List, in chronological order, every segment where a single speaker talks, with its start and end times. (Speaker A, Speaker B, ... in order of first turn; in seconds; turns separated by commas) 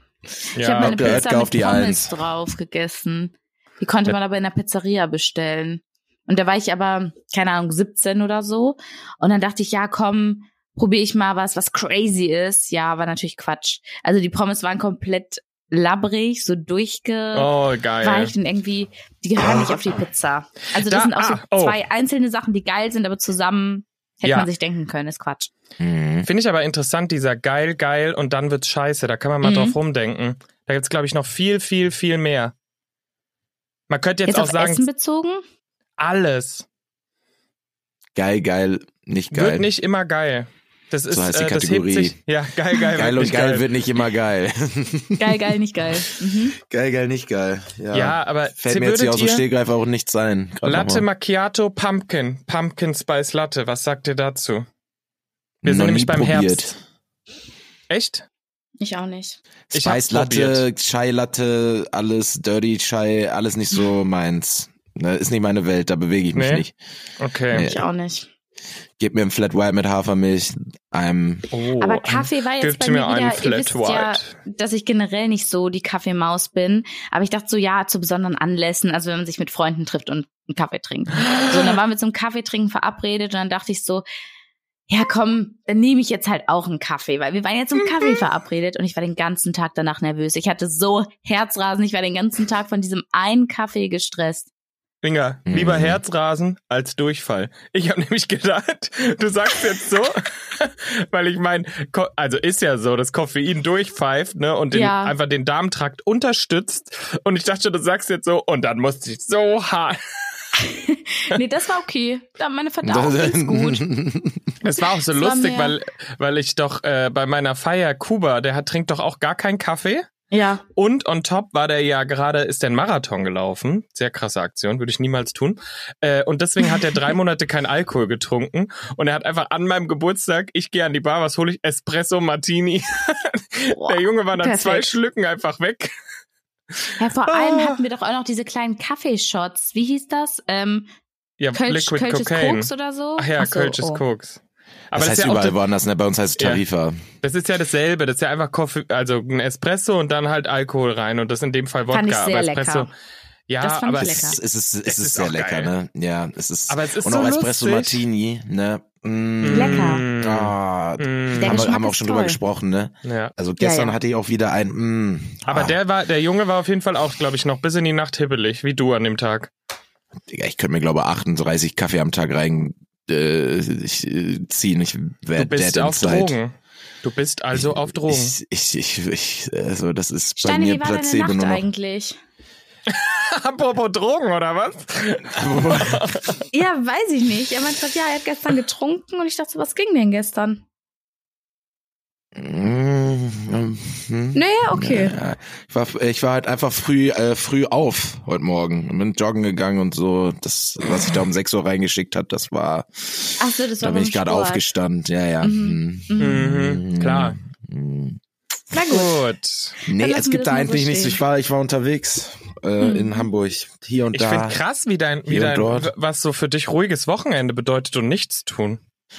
Speaker A: 0.6-1.2, Speaker B: 0.6-25.5, Speaker C: 0.8-2.1, Speaker A: 17.3-18.3, Speaker A: 20.8-21.8, Speaker A: 24.2-24.5, Speaker C: 25.8-26.3, Speaker A: 26.2-32.5, Speaker B: 29.4-29.8, Speaker A: 33.9-34.9, Speaker B: 34.3-35.4, Speaker A: 36.0-36.7, Speaker C: 38.2-39.7, Speaker A: 39.3-43.7, Speaker C: 41.1-42.2, Speaker C: 42.9-45.6, Speaker B: 45.2-46.6, Speaker C: 46.6-51.0, Speaker A: 47.9-49.5, Speaker A: 50.6-54.7, Speaker C: 55.6-56.7, Speaker A: 55.6-56.8, Speaker A: 57.9-58.3, Speaker B: 58.8-59.4, Speaker C: 59.7-66.8, Speaker A: 59.7-60.6, Speaker A: 66.3-66.7, Speaker A: 67.2-67.7, Speaker C: 67.5-67.8, Speaker B: 67.6-68.3, Speaker C: 69.0-71.5, Speaker A: 71.5-74.4, Speaker B: 71.8-84.0, Speaker B: 84.9-94.5, Speaker A: 95.0-110.5, Speaker C: 95.5-96.0, Speaker B: 104.7-105.2, Speaker B: 110.6-113.8, Speaker C: 112.8-114.5, Speaker A: 114.6-120.1, Speaker B: 115.0-115.8, Speaker B: 120.3-120.6, Speaker A: 120.8-135.9, Speaker B: 126.6-127.0, Speaker B: 133.8-135.0, Speaker A: 136.8-137.8, Speaker B: 137.0-140.9, Speaker A: 141.4-145.6, Speaker B: 141.6-144.0, Speaker C: 144.9-147.0, Speaker A: 146.4-146.6, Speaker A: 147.2-152.9, Speaker B: 151.9-152.9, Speaker A: 153.5-155.7, Speaker B: 153.6-154.4, Speaker C: 154.0-165.8, Speaker A: 156.7-158.0, Speaker A: 159.4-161.7, Speaker B: 159.5-160.1, Speaker B: 161.4-162.4, Speaker A: 163.0-163.3, Speaker B: 163.6-164.0, Speaker A: 165.4-169.5, Speaker C: 170.3-176.4, Speaker A: 175.4-178.4, Speaker C: 177.5-181.7, Speaker B: 180.4-182.2, Speaker A: 182.9-186.4, Speaker C: 185.2-186.2, Speaker B: 186.5-190.6, Speaker C: 192.3-208.2, Speaker B: 194.3-195.2, Speaker B: 203.4-204.6, Speaker B: 205.4-206.5, Speaker A: 206.2-207.4, Speaker B: 208.7-209.3, Speaker A: 208.9-209.8, Speaker C: 209.9-214.6, Speaker B: 210.0-211.2, Speaker B: 212.8-213.3, Speaker A: 214.1-218.8, Speaker C: 215.3-215.9